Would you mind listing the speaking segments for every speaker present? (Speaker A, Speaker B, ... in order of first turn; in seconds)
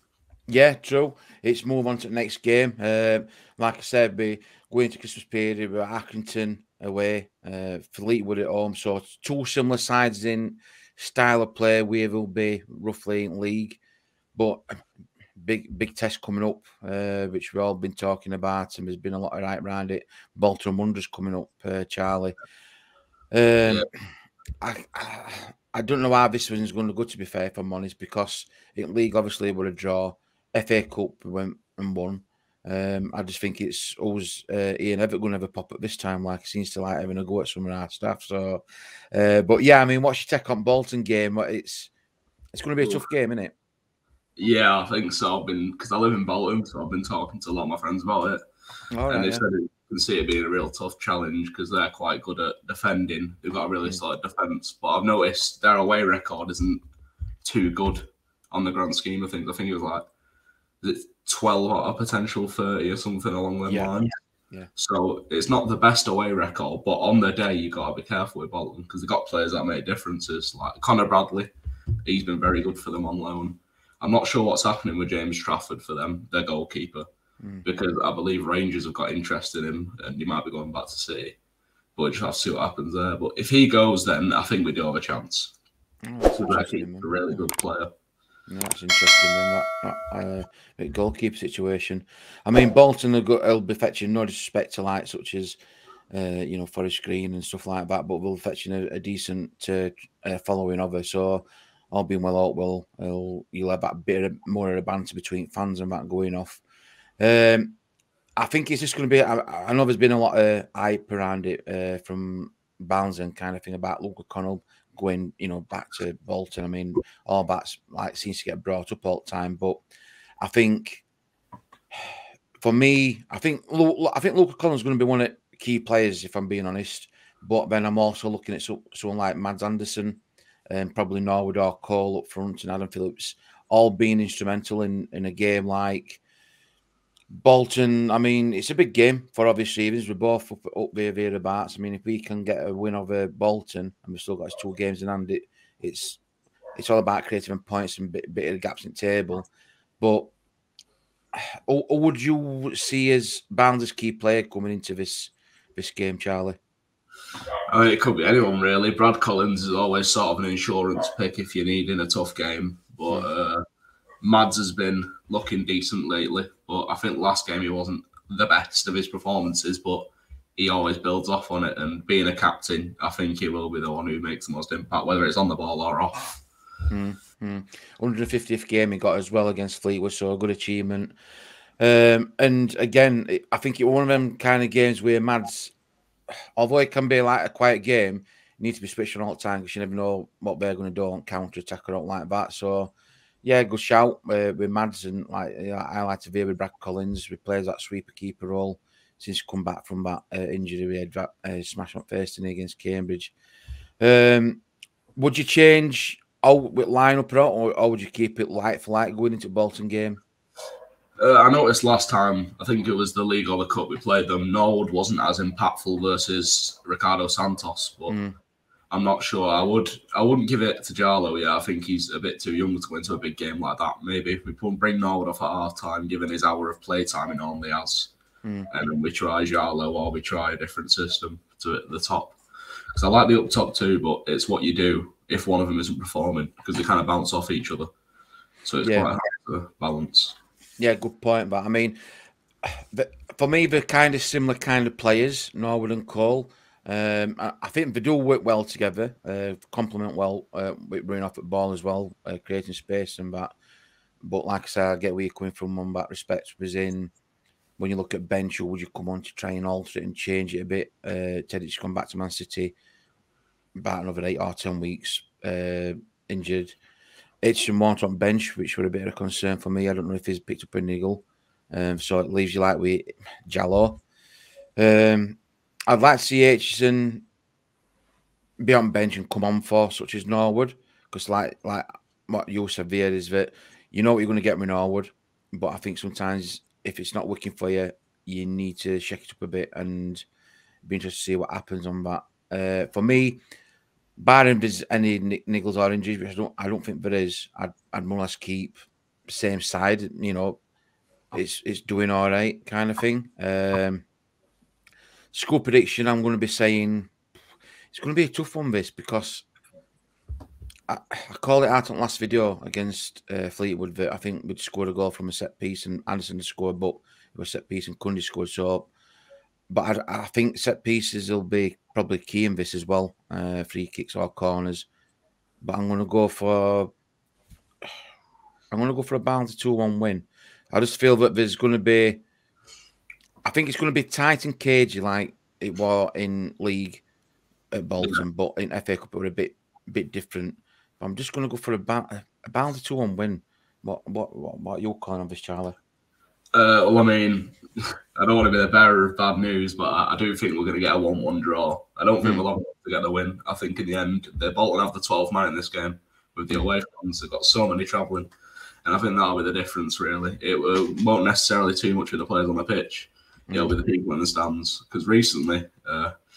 Speaker A: 0.5-13.8, 14.3-14.8, 15.4-22.4, 23.3-23.9, 24.6-38.6, 39.1-41.9, 42.5-43.5, 48.9-49.4, 63.6-63.9, 77.4-77.7, 86.0-87.5, 88.5-95.6, 96.1-106.6, 107.2-107.8, 108.4-119.8, 120.4-121.0, 122.6-136.2, 137.3-146.2, 146.8-149.5, 150.0-150.3, 151.7-156.6, 176.9-181.1, 181.8-185.7, 186.6-192.9, 193.4-203.3, 204.0-204.6, 205.2-210.2, 218.1-218.4, 238.8-239.1, 240.8-242.0, 242.6-253.5, 254.2-257.1, 257.8-262.7, 263.8-266.8, 267.4-274.0, 274.8-277.2, 278.6-290.2, 290.8-293.4, 294.2-300.6, 301.3-304.0, 305.3-307.1, 307.9-309.4, 310.9-318.9, 319.7-324.9, 325.6-326.9, 328.7-332.2, 333.4-337.0, 337.7-345.8, 363.5-363.8
Speaker B: 44.4-48.4, 49.1-56.8, 57.4-60.0, 60.8-64.1, 64.8-71.5, 72.0-77.0, 77.6-81.4, 82.0-85.5, 86.3-87.9, 157.7-163.6, 164.2-176.4, 211.2-218.2, 218.9-228.1, 228.7-232.4, 232.9-237.9, 238.6-240.3, 346.5-347.5, 348.1-358.3, 358.8-366.1